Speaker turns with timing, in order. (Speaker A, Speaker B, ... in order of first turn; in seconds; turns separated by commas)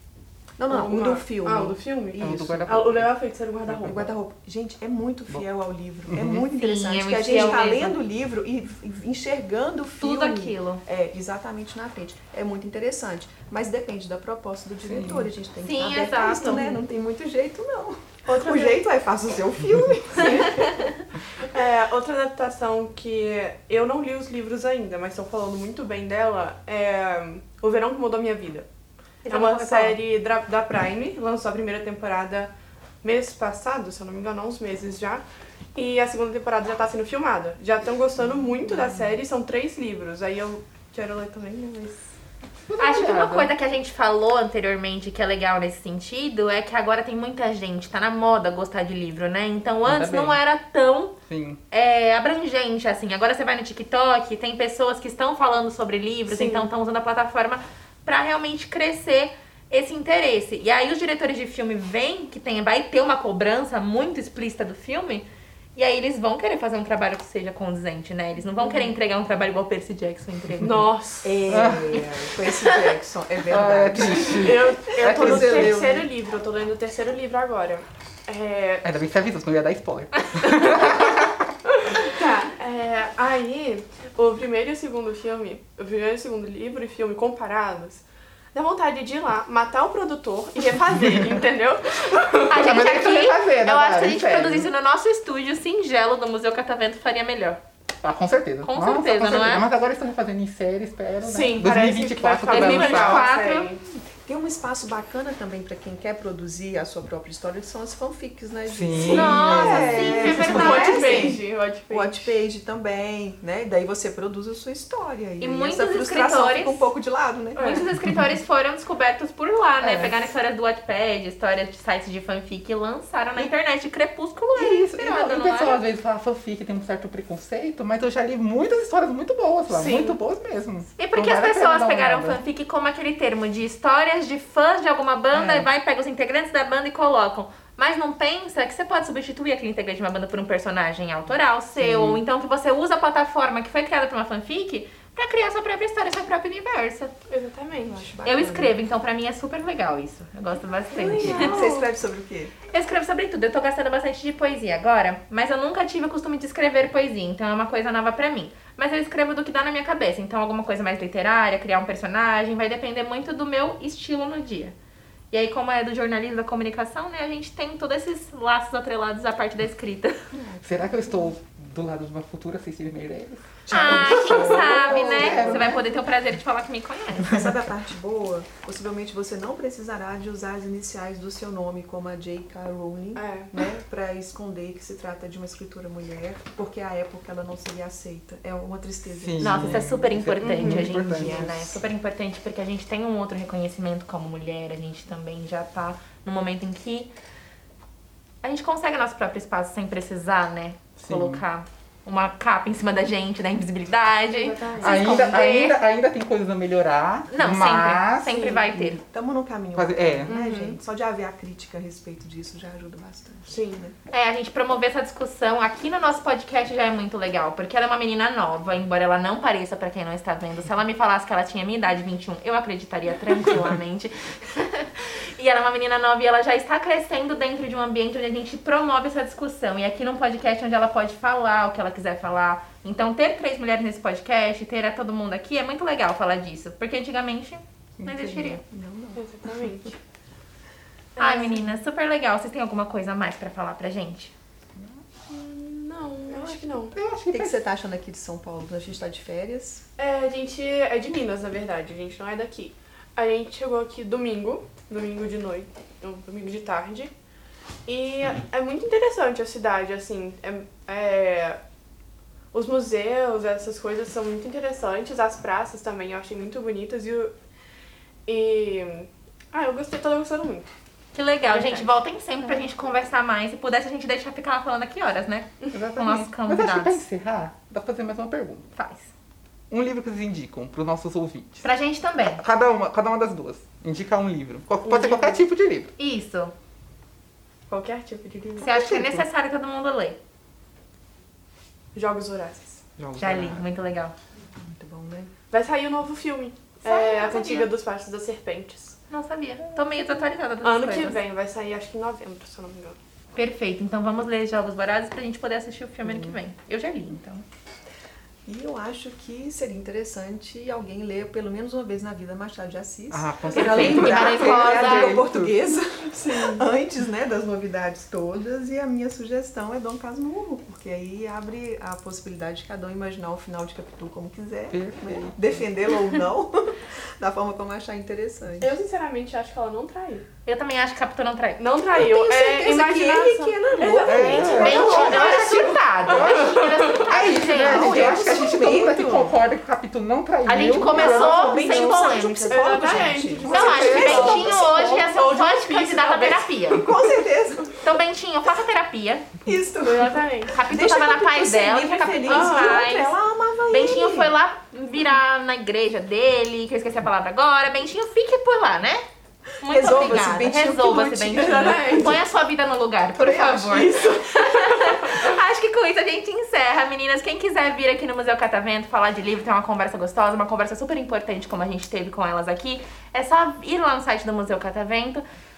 Speaker A: 0.6-2.8, Speaker B: 0.7-4.1, Speaker C: 2.2-3.2, Speaker C: 3.7-3.9, Speaker A: 3.8-20.7, Speaker C: 6.1-6.5, Speaker D: 6.5-8.0, Speaker D: 10.0-10.8, Speaker C: 14.9-15.3, Speaker D: 15.6-16.8, Speaker B: 18.3-18.8, Speaker B: 20.2-20.8, Speaker B: 21.5-28.7, Speaker D: 29.2-30.0, Speaker B: 29.3-32.5, Speaker B: 33.0-35.2, Speaker B: 35.8-42.1, Speaker C: 42.6-43.5, Speaker D: 42.8-51.1, Speaker C: 49.9-50.4, Speaker C: 51.3-51.6, Speaker D: 51.7-70.8, Speaker B: 56.3-56.7, Speaker B: 70.6-71.4, Speaker A: 71.2-76.1, Speaker C: 71.5-72.0, Speaker C: 73.5-75.8, Speaker B: 74.2-78.9, Speaker C: 78.8-81.5, Speaker B: 81.8-92.7, Speaker D: 92.5-97.6, Speaker C: 92.5-94.7, Speaker C: 98.0-103.3, Speaker D: 98.6-99.7, Speaker B: 101.2-103.8, Speaker D: 102.5-103.7, Speaker A: 104.2-117.9, Speaker C: 108.7-110.6, Speaker B: 109.0-112.3, Speaker D: 109.1-111.3, Speaker D: 115.4-116.9, Speaker B: 117.6-117.9, Speaker D: 117.6-125.8, Speaker A: 119.8-120.2, Speaker C: 124.5-132.4, Speaker B: 129.7-130.2, Speaker D: 131.0-147.1, Speaker C: 135.3-135.7, Speaker C: 141.8-142.2, Speaker B: 147.3-148.1, Speaker A: 147.9-148.8, Speaker D: 148.2-151.5, Speaker B: 150.9-151.9, Speaker A: 151.1-152.5, Speaker D: 152.7-164.8, Speaker D: 165.3-170.1, Speaker A: 170.3-171.3, Speaker C: 170.6-175.8, Speaker A: 173.7-175.8, Speaker D: 173.7-177.4, Speaker A: 177.2-190.0, Speaker B: 183.2-183.5, Speaker C: 189.2-191.8, Speaker D: 189.4-197.1, Speaker B: 190.5-190.9, Speaker D: 198.4-205.8, Speaker C: 201.0-201.4, Speaker B: 204.3-205.3, Speaker C: 204.8-208.4, Speaker D: 207.3-209.0, Speaker B: 208.3-208.7, Speaker A: 208.7-213.9, Speaker C: 209.8-210.3, Speaker B: 210.3-210.8, Speaker B: 213.5-213.8, Speaker D: 214.1-238.6, Speaker A: 238.1-239.3, Speaker B: 239.2-240.0, Speaker B: 241.2-241.7, Speaker D: 241.2-244.3, Speaker B: 245.3-246.9, Speaker C: 246.3-247.6, Speaker A: 247.3-249.8, Speaker B: 250.0-257.1, Speaker B: 257.9-261.6, Speaker B: 262.5-267.3, Speaker B: 268.3-270.7, Speaker D: 271.1-277.1, Speaker B: 271.5-271.9, Speaker C: 275.7-278.7, Speaker D: 278.8-279.1, Speaker C: 279.7-281.6, Speaker D: 281.6-282.4, Speaker C: 282.4-285.9, Speaker B: 284.9-285.4, Speaker D: 286.0-286.5, Speaker B: 287.7-288.7, Speaker D: 288.6-290.2, Speaker C: 288.6-289.2, Speaker B: 291.9-292.8, Speaker C: 293.0-293.7, Speaker D: 293.2-294.1, Speaker A: 294.7-295.3, Speaker B: 295.5-299.0, Speaker D: 296.8-297.7, Speaker D: 299.1-301.2, Speaker B: 300.6-303.0, Speaker D: 303.4-307.4, Speaker A: 308.5-328.8, Speaker C: 313.1-315.6, Speaker D: 313.5-315.2, Speaker B: 316.0-316.6, Speaker C: 324.7-325.6, Speaker B: 328.6-330.2, Speaker D: 330.4-331.6, Speaker B: 331.6-337.1, Speaker A: 331.9-335.5, Speaker C: 334.1-342.0, Speaker D: 334.6-338.4, Speaker A: 337.5-339.4, Speaker D: 340.5-342.9, Speaker A: 340.8-344.7, Speaker B: 342.5-347.0, Speaker C: 343.4-344.3, Speaker D: 343.5-346.9, Speaker A: 346.7-347.7, Speaker D: 347.8-349.3, Speaker A: 349.4-354.3, Speaker B: 349.8-350.6, Speaker D: 350.5-353.1, Speaker B: 352.3-352.8, Speaker D: 353.7-359.0, Speaker D: 359.6-375.2, Speaker A: 359.6-362.1, Speaker B: 361.3-362.2, Speaker B: 363.2-365.3